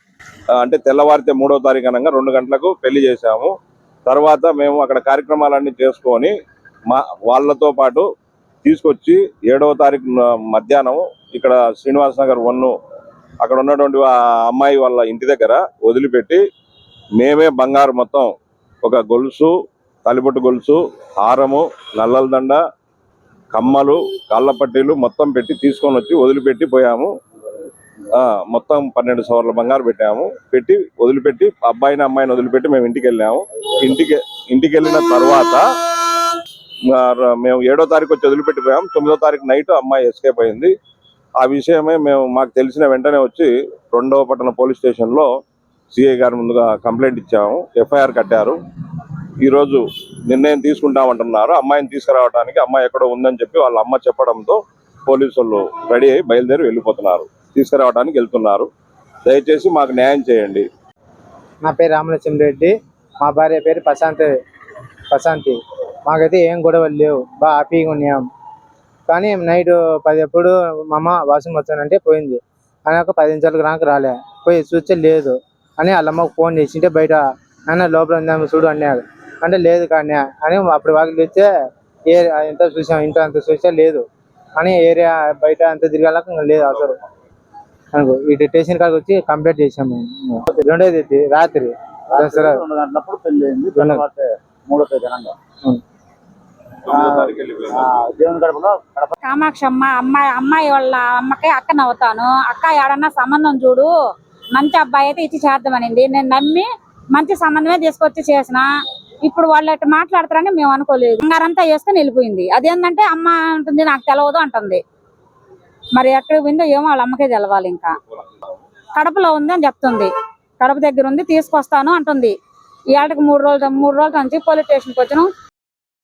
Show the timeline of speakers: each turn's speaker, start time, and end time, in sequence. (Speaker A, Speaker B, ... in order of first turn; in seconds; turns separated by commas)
Speaker A: 0.5-3.5, Speaker A: 4.0-6.3, Speaker A: 6.9-8.1, Speaker A: 8.6-12.7, Speaker A: 13.4-16.4, Speaker A: 17.2-18.3, Speaker A: 18.8-19.5, Speaker A: 20.0-22.6, Speaker A: 23.5-27.1, Speaker A: 28.1-35.6, Speaker A: 36.9-40.7, Speaker A: 41.4-45.3, Speaker A: 45.9-48.6, Speaker A: 49.4-58.7, Speaker A: 59.2-60.6, Speaker B: 61.6-64.3, Speaker B: 65.1-68.2, Speaker B: 69.1-81.5, Speaker B: 82.1-84.0, Speaker B: 84.6-87.0, Speaker B: 87.9-92.6, Speaker C: 92.1-95.3, Speaker B: 93.8-94.0, Speaker A: 96.9-97.9, Speaker B: 96.9-97.3, Speaker C: 97.7-99.1, Speaker D: 99.2-103.9, Speaker D: 104.5-108.6, Speaker D: 109.2-114.8, Speaker D: 116.0-117.9, Speaker D: 119.0-122.3, Speaker D: 122.9-125.3